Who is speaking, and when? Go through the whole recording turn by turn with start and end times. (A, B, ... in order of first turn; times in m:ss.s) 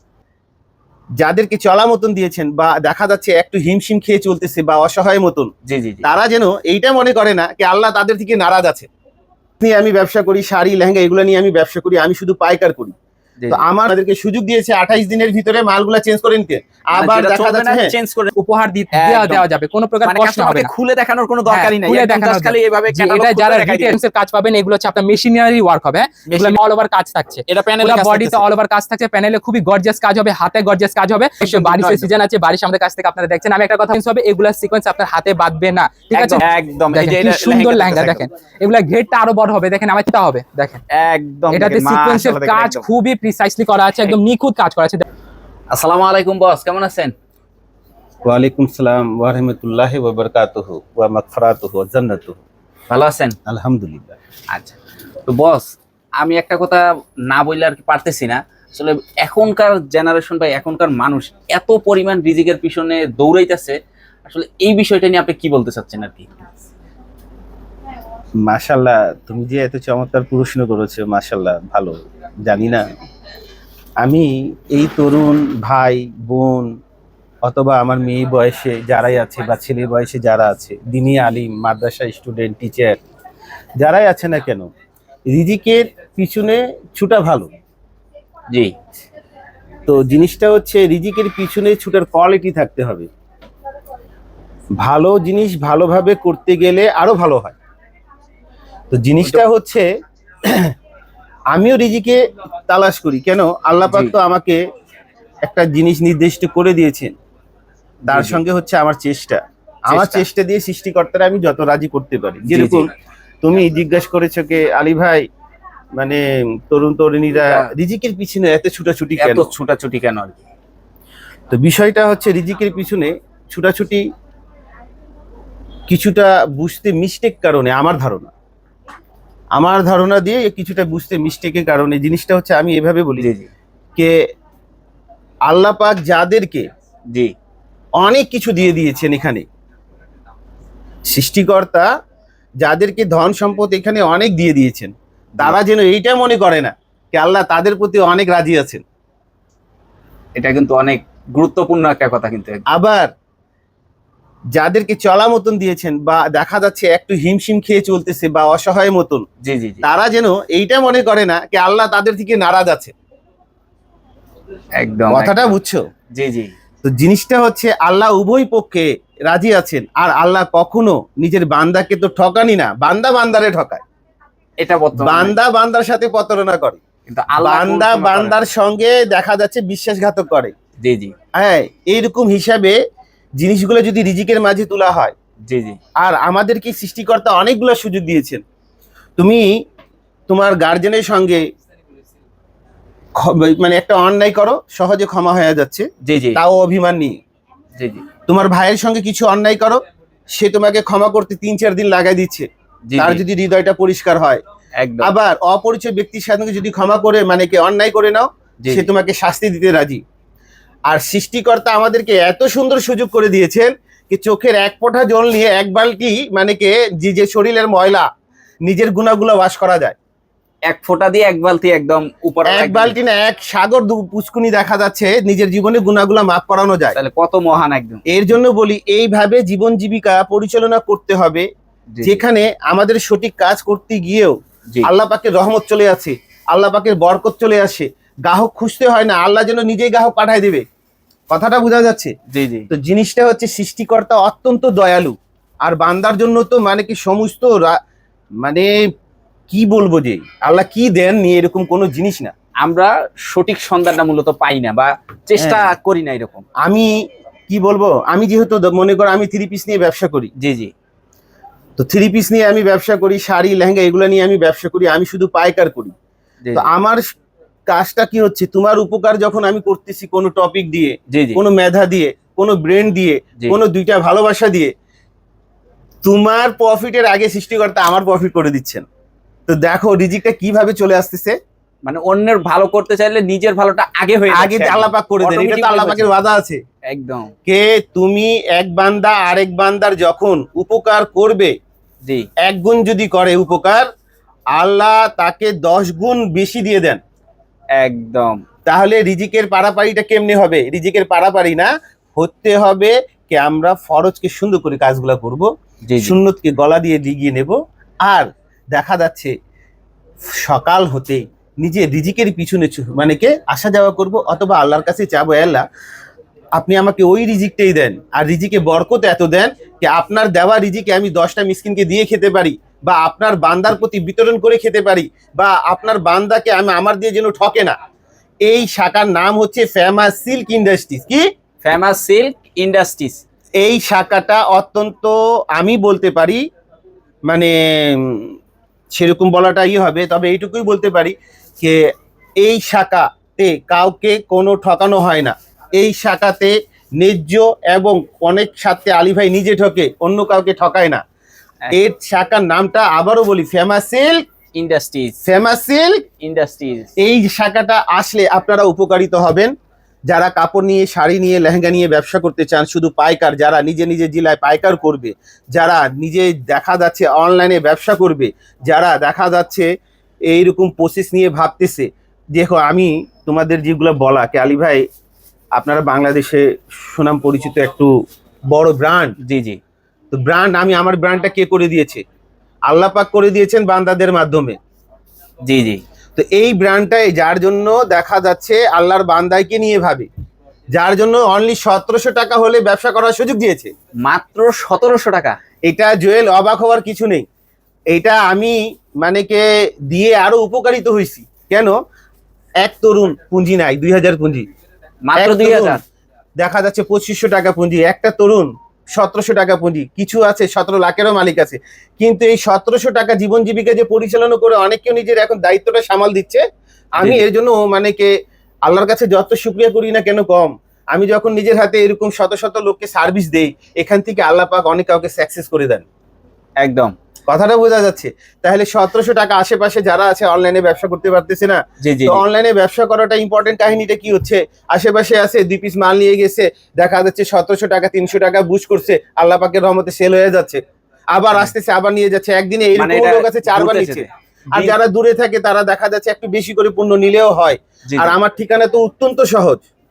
0:01.2-0:05.5 A
0:05.6-0:06.0 B
0:06.0-0:08.9 A
0:09.6-0:12.9 A
0:13.5-0:17.9 A
0:16.9-0:18.3 B
0:18.4-0:20.7 C
0:18.9-0:19.4 B
0:20.0-0:24.0 B
0:21.5-0:40.8 C
0:26.3-0:26.6 B
0:27.5-0:28.5 B
0:31.4-0:32.1 B
0:36.1-0:38.2 B
0:40.9-0:42.8 B
0:41.5-0:45.0 C
0:45.7-0:47.1 B
0:48.2-0:52.4 A
0:52.9-0:53.4 B
0:53.4-0:54.2 A
0:55.3-1:06.3 B
1:08.4-1:12.9 A
1:14.0-1:16.7 A
1:17.4-1:23.0 A
1:23.8-1:24.7 A
1:25.3-1:27.5 A
1:29.9-1:33.1 A
1:34.8-1:37.6 A
1:38.9-1:39.8 A
1:40.4-1:40.7 A
1:41.5-1:44.6 A
1:43.8-1:44.1 B
1:45.4-1:47.1 A
1:48.0-1:48.4 B
1:48.1-1:52.9 A
1:49.9-1:50.3 B
1:52.4-1:52.9 B
1:53.4-1:55.2 A
1:56.0-1:59.5 A
1:57.4-1:57.7 B
1:59.2-2:00.4 B
2:01.5-2:04.0 A
2:05.9-2:08.3 A
2:09.6-2:13.3 A
2:13.2-2:13.5 B
2:15.5-2:16.6 A
2:18.0-2:19.4 A
2:21.1-2:21.9 A
2:22.6-2:28.8 A
2:30.4-2:32.6 B
2:32.7-2:33.1 A
2:34.5-2:39.2 A
2:39.4-2:39.8 B
2:39.8-2:42.9 A
2:44.8-2:45.6 B
2:45.1-2:45.8 A
2:46.1-2:46.5 B
2:46.8-2:53.8 A
2:54.6-2:55.4 B
2:55.0-2:56.8 A
2:57.1-2:58.4 B
2:57.4-3:00.5 A
3:00.8-3:01.1 B
3:01.3-3:02.8 A
3:03.4-3:05.1 A
3:05.5-3:05.8 B
3:06.0-3:08.4 A
3:09.2-3:09.5 A
3:10.3-3:11.4 A
3:13.2-3:17.2 A
3:16.0-3:16.4 B
3:17.8-3:18.0 B
3:18.3-3:19.8 A
3:20.3-3:24.4 A
3:22.9-3:23.2 B
3:24.8-3:25.1 B
3:25.0-3:30.0 A
3:28.6-3:28.9 B
3:30.9-3:38.1 A
3:38.6-3:40.0 A
3:40.6-3:43.0 B
3:42.4-3:47.0 A
3:46.9-3:48.0 B
3:48.1-3:51.4 A
3:51.9-3:52.2 B
3:52.0-4:00.6 A
4:01.3-4:02.1 A
4:02.3-4:02.7 B
4:02.7-4:07.8 A
4:08.4-4:08.8 A
4:09.5-4:12.3 A
4:12.6-4:16.4 B
4:15.4-4:15.7 A
4:16.6-4:16.9 A
4:17.5-4:20.3 A
4:20.4-4:20.7 B
4:21.8-4:25.9 A
4:26.4-4:26.7 B
4:26.5-4:27.0 A
4:27.7-4:34.7 A
4:31.1-4:31.4 B
4:36.0-4:38.8 A
4:39.5-4:41.4 A
4:41.8-4:46.1 B
4:44.3-4:46.6 A
4:46.9-4:47.3 B
4:47.4-4:51.5 A
4:52.0-4:52.3 B
4:52.4-4:53.9 A
4:54.5-4:57.0 A
4:57.7-4:58.4 B
4:58.6-5:09.3 A
5:05.8-5:06.2 B
5:10.3-5:15.6 A
5:16.6-5:27.8 A
5:28.4-5:31.2 A
5:31.6-5:33.2 B
5:33.6-5:36.4 A
5:37.3-5:38.4 A
5:38.9-5:51.0 A
5:51.7-5:54.2 A
5:54.5-5:55.2 B
5:55.2-5:56.0 A
5:56.2-5:56.9 B
5:57.0-5:59.5 A
6:00.1-6:09.7 A
6:10.3-6:14.8 A
6:15.6-6:17.9 A
6:18.5-6:19.1 A
6:19.2-6:19.6 B
6:20.1-6:22.0 A
6:22.7-6:24.6 A
6:25.4-6:25.8 B
6:26.2-6:30.1 A
6:30.7-6:33.7 A
6:34.0-6:35.4 B
6:35.7-6:37.2 A
6:37.9-6:41.7 A
6:42.6-6:44.4 A
6:45.0-6:45.8 B
6:45.2-6:45.8 A
6:46.4-6:56.4 A
6:57.0-6:58.1 A
6:57.0-6:57.2 B
6:58.7-7:05.8 A
7:06.6-7:06.9 B
7:07.3-7:20.6 A
7:11.8-7:12.2 B
7:21.1-7:29.6 A
7:22.7-7:24.8 B
7:27.8-7:28.2 B